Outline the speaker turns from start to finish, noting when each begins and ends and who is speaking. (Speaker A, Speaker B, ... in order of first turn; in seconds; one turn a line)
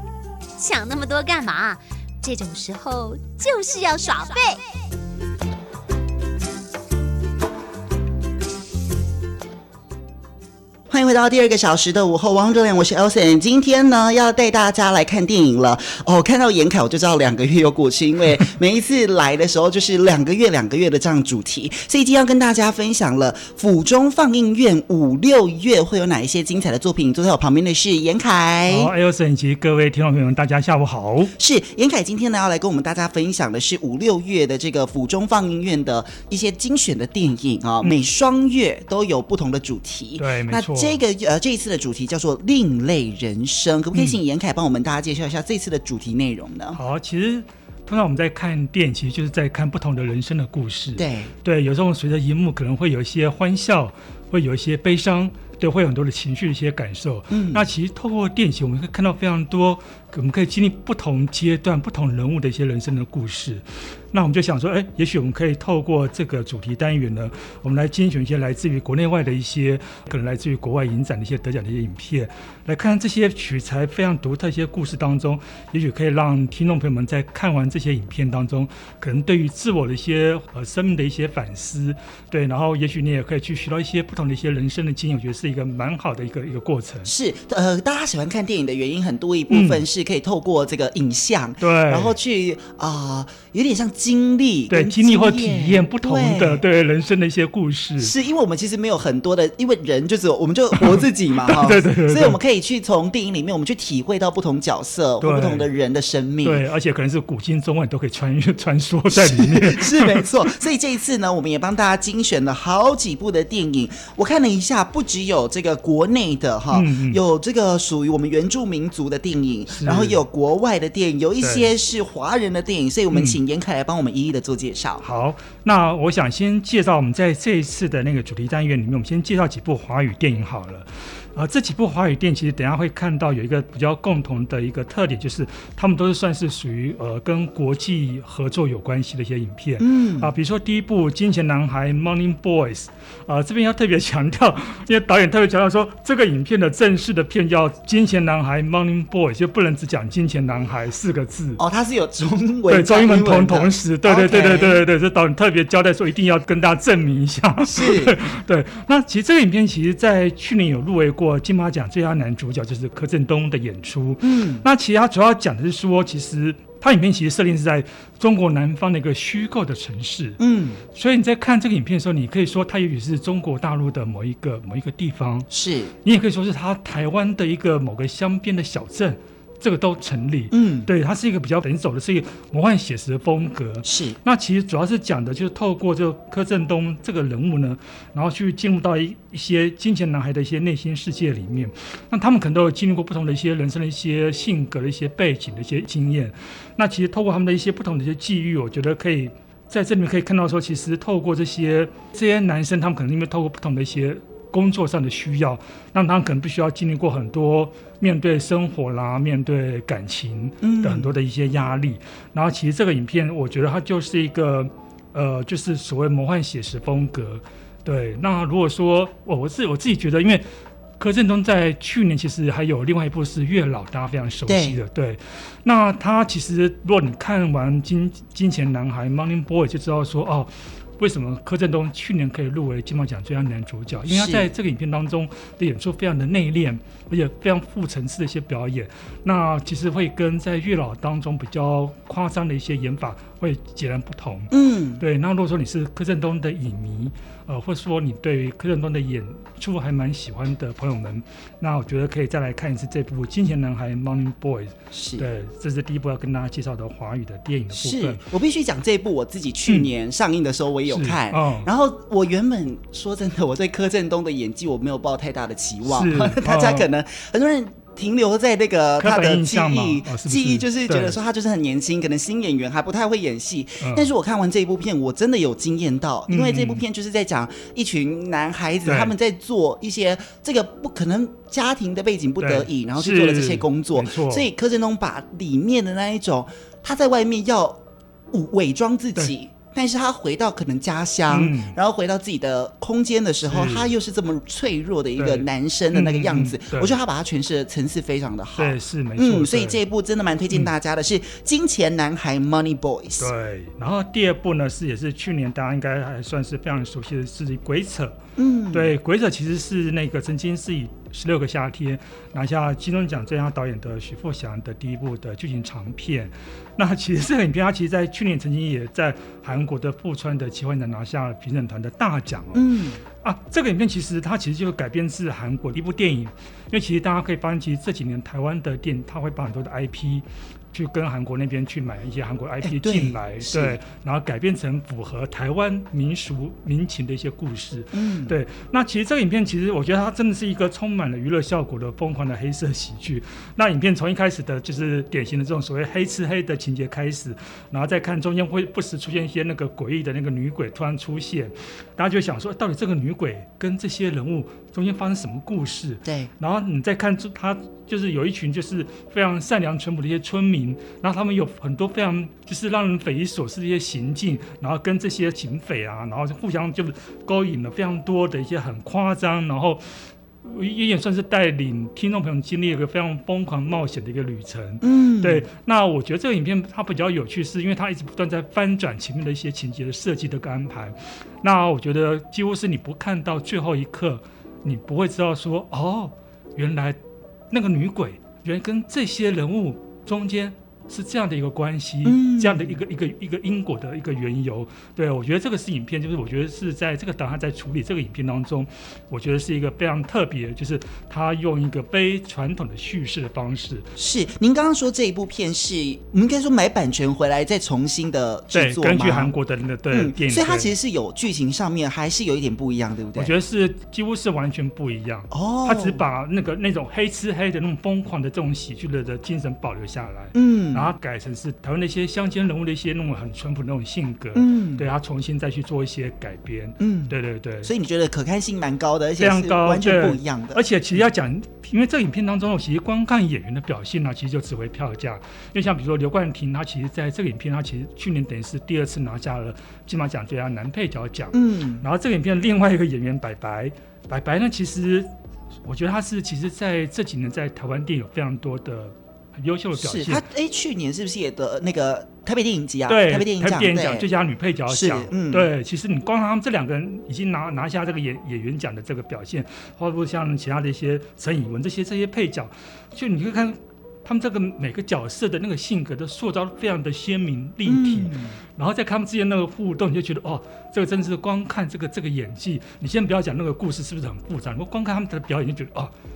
Speaker A: 0.6-4.6
Speaker B: 10.9-28.9
Speaker C: 28.7-31.3
Speaker B: 31.4-46.8
Speaker C: 40.2-41.0
Speaker C: 43.9-44.2
Speaker C: 46.7-87.1
Speaker B: 51.0-51.3
Speaker B: 57.3-57.7
Speaker B: 87.0-96.6
Speaker C: 89.5-89.8
Speaker C: 91.6-92.2
Speaker C: 94.7-98.1
Speaker B: 98.0-106.6
Speaker C: 100.8-102.4
Speaker C: 105.2-105.7
Speaker C: 106.4-110.3
Speaker B: 109.1-125.0
Speaker C: 116.7-117.2
Speaker C: 119.7-120.2
Speaker C: 121.4-121.7
Speaker C: 123.1-123.4
Speaker C: 125.0-151.6
Speaker B: 139.8-140.3
Speaker B: 151.6-154.8
Speaker C: 152.7-170.4
Speaker B: 157.7-158.2
Speaker B: 164.2-164.7
Speaker B: 170.4-170.8
Speaker C: 170.9-175.5
Speaker B: 175.5-175.9
Speaker C: 176.0-220.4
Speaker B: 180.5-180.9
Speaker B: 183.8-184.2
Speaker B: 210.6-211.1
Speaker C: 221.0-258.2
Speaker B: 224.5-224.8
Speaker B: 234.1-234.5
Speaker B: 244.5-245.0
Speaker B: 254.9-255.2
Speaker B: 257.7-287.8
Speaker C: 260.9-261.7
Speaker C: 265.9-266.9
Speaker C: 269.0-271.2
Speaker C: 273.8-274.1
Speaker C: 276.3-276.8
Speaker C: 278.9-279.1
Speaker C: 282.4-284.5
Speaker B: 288.3-303.3
Speaker C: 291.3-291.8
Speaker C: 293.4-293.9
Speaker C: 295.2-297.0
Speaker C: 298.6-299.8
Speaker C: 303.2-308.2
Speaker B: 308.4-308.9
Speaker C: 308.7-369.8
Speaker B: 322.6-323.0
Speaker B: 332.6-333.8
Speaker B: 337.9-338.4
Speaker B: 356.1-356.3
Speaker C: 370.4-387.0
Speaker B: 374.8-375.5
Speaker C: 387.5-403.9
Speaker B: 392.1-392.8
Speaker B: 404.0-409.3
Speaker C: 408.5-410.7
Speaker B: 409.9-413.3
Speaker C: 413.1-427.7
Speaker B: 415.3-416.0
Speaker B: 420.3-420.9
Speaker B: 424.4-424.9
Speaker B: 426.8-430.6
Speaker C: 429.2-445.1
Speaker B: 441.3-441.9
Speaker C: 445.6-450.2
Speaker B: 449.8-454.1
Speaker C: 452.9-475.9
Speaker B: 454.7-455.5
Speaker B: 467.7-468.4